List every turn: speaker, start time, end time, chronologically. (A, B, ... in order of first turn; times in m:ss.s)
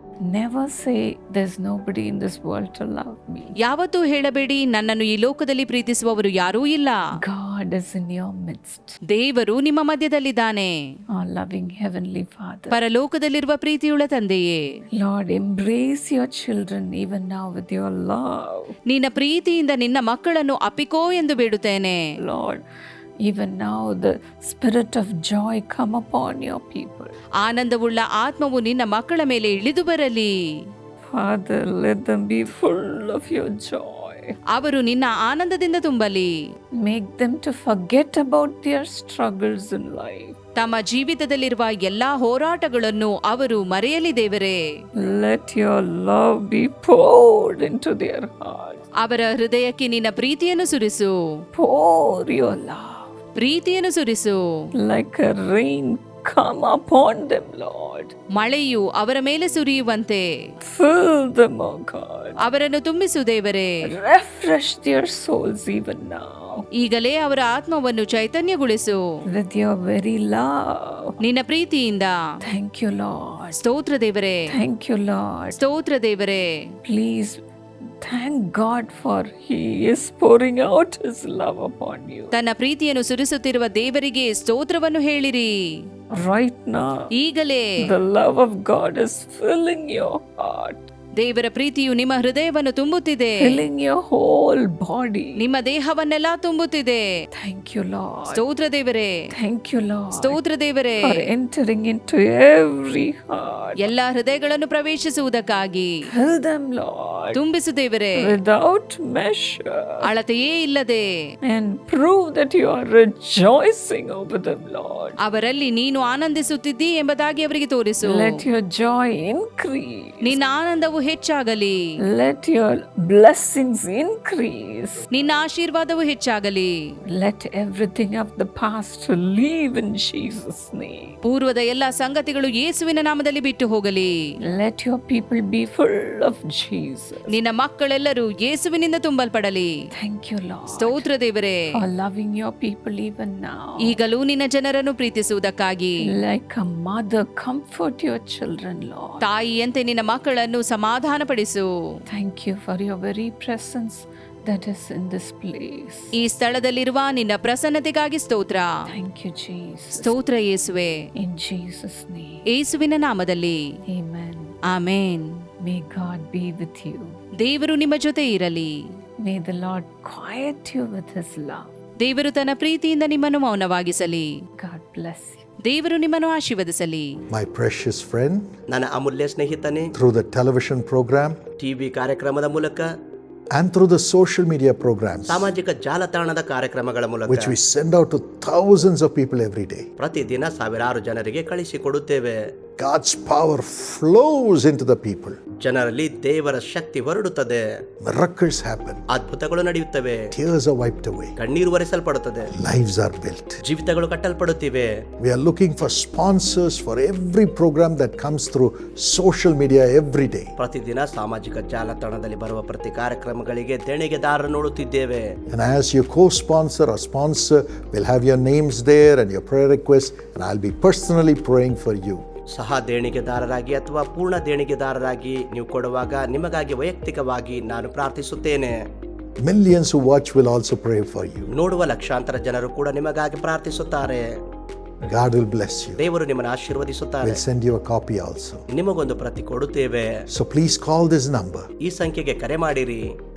0:00.2-0:03.6 A
0:03.6-0:07.0 B
0:07.2-0:09.0 A
0:09.1-0:10.7 B
0:11.1-0:12.8 A
0:12.7-0:14.6 B
0:15.0-0:18.8 A
0:18.9-0:22.0 B
0:22.2-0:22.6 A
0:23.2-0:27.2 A
0:27.4-0:30.3 B
0:31.1-0:34.4 A
0:34.5-0:36.3 B
0:36.8-0:40.4 A
0:40.6-0:44.6 B
0:45.0-0:48.9 A
0:49.0-0:51.2 B
0:51.6-0:53.2 A
0:53.4-0:54.4 B
0:54.8-0:58.2 A
0:58.3-1:00.3 B
1:00.6-1:02.4 A
1:02.4-1:03.8 B
1:03.8-1:06.7 A
1:06.8-1:09.0 B
1:09.2-1:11.2 A
1:11.2-1:12.1 B
1:12.4-1:13.6 A
1:13.5-1:14.4 B
1:14.5-1:15.6 A
1:15.5-1:16.5 B
1:16.8-1:22.3 A
1:22.3-1:25.5 B
1:26.2-1:27.1 A
1:27.2-1:27.7 B
1:27.8-1:30.9 A
1:31.2-1:33.6 B
1:33.4-1:35.4 A
1:35.4-1:37.0 B
1:37.4-1:38.4 A
1:38.3-1:39.1 B
1:39.3-1:40.4 A
1:40.2-1:41.3 B
1:41.0-1:43.9 A
1:43.8-1:45.9 B
1:46.1-1:47.4 A
1:47.3-1:48.2 B
1:48.2-1:50.1 A
1:50.0-1:51.0 B
1:51.4-1:55.2 A
1:55.2-1:58.4 B
1:58.0-2:00.4 A
2:00.2-2:01.8 B
2:02.0-2:05.0 A
2:05.1-2:06.8 B
2:07.1-2:11.2 A
2:11.2-2:14.1 B
2:14.4-2:17.4 A
2:17.3-2:19.7 B
2:20.0-2:21.1 A
2:20.7-2:21.6 B
2:21.7-2:24.0 A
2:23.8-2:26.1 B
2:26.0-2:29.2 A
2:29.2-2:31.7 B
2:32.1-2:36.1 A
2:36.2-2:38.7 B
2:38.9-2:40.1 A
2:39.9-2:40.9 B
2:41.2-2:42.5 A
2:42.5-2:43.6 B
2:43.9-2:44.6 A
2:44.7-2:45.4 B
2:45.6-2:47.2 A
2:47.4-2:49.0 B
2:49.2-2:51.7 A
2:52.0-2:54.3 B
2:54.6-2:55.5 A
2:55.6-2:57.1 B
2:57.3-2:58.5 C
2:58.7-2:59.9 D
2:59.9-3:01.4 C
3:01.6-3:02.9 D
3:03.5-3:05.5 C
3:05.3-3:07.5 D
3:07.3-3:09.9 C
3:10.0-3:12.4 D
3:12.8-3:15.4 C
3:15.6-3:17.6 D
3:18.0-3:19.0 C
3:19.1-3:20.3 D
3:20.3-3:21.4 C
3:21.4-3:22.5 D
3:22.5-3:23.6 C
3:23.6-3:24.9 D
3:25.2-3:30.5 C
3:30.6-3:35.3 D
3:35.5-3:42.2 C
3:42.5-3:48.7 D
3:49.4-3:51.5 C
3:51.5-3:54.3 D
3:55.0-3:56.0 C
3:56.0-3:57.4 D
3:57.2-3:58.7 C
3:58.7-4:00.2 D
4:00.3-4:01.7 C
4:01.8-4:03.1 D